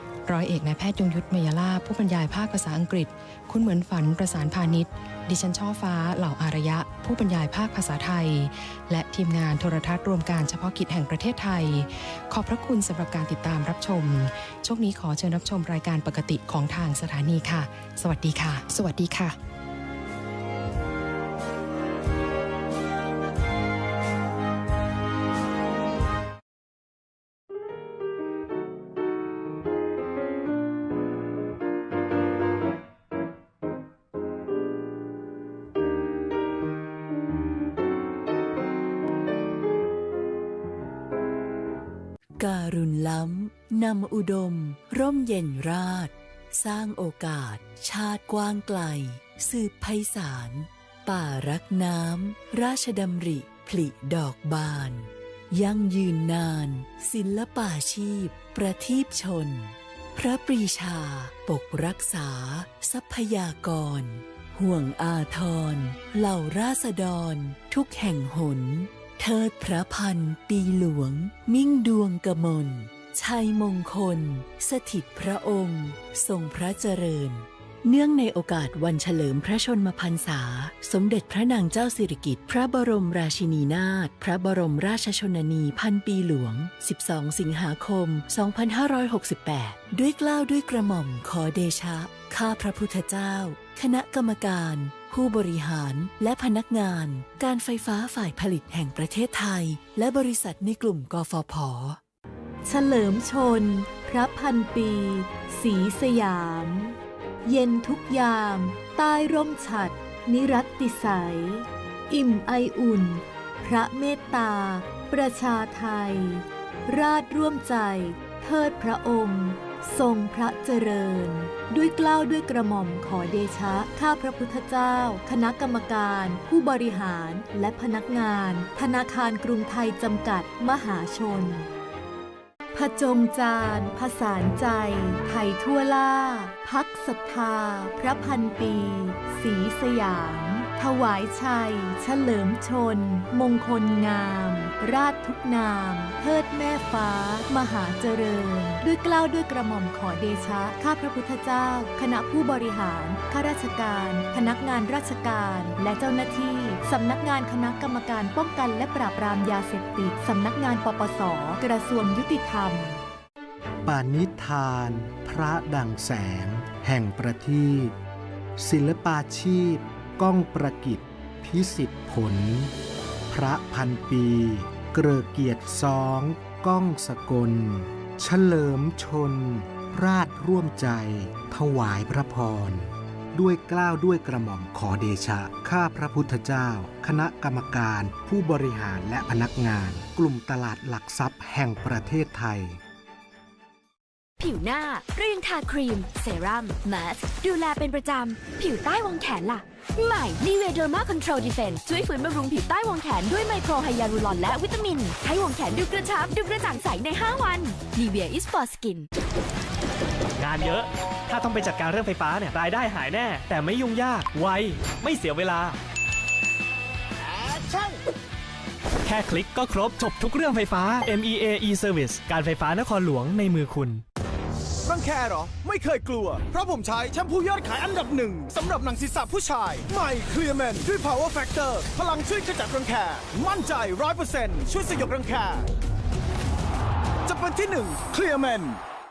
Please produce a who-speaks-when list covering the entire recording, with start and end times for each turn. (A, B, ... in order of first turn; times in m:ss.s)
0:00.2-0:19.4 A
0:42.4-1:42.0 B
1:42.6-2:11.7 C
2:12.7-2:43.0 C
2:43.8-2:47.9 D
2:48.6-2:52.7 D
2:53.3-3:12.8 D
3:14.4-3:29.1 E
3:30.4-3:35.8 F
3:37.5-3:37.9 G
3:39.0-3:44.0 F
3:44.8-3:55.7 G
3:57.2-3:58.8 G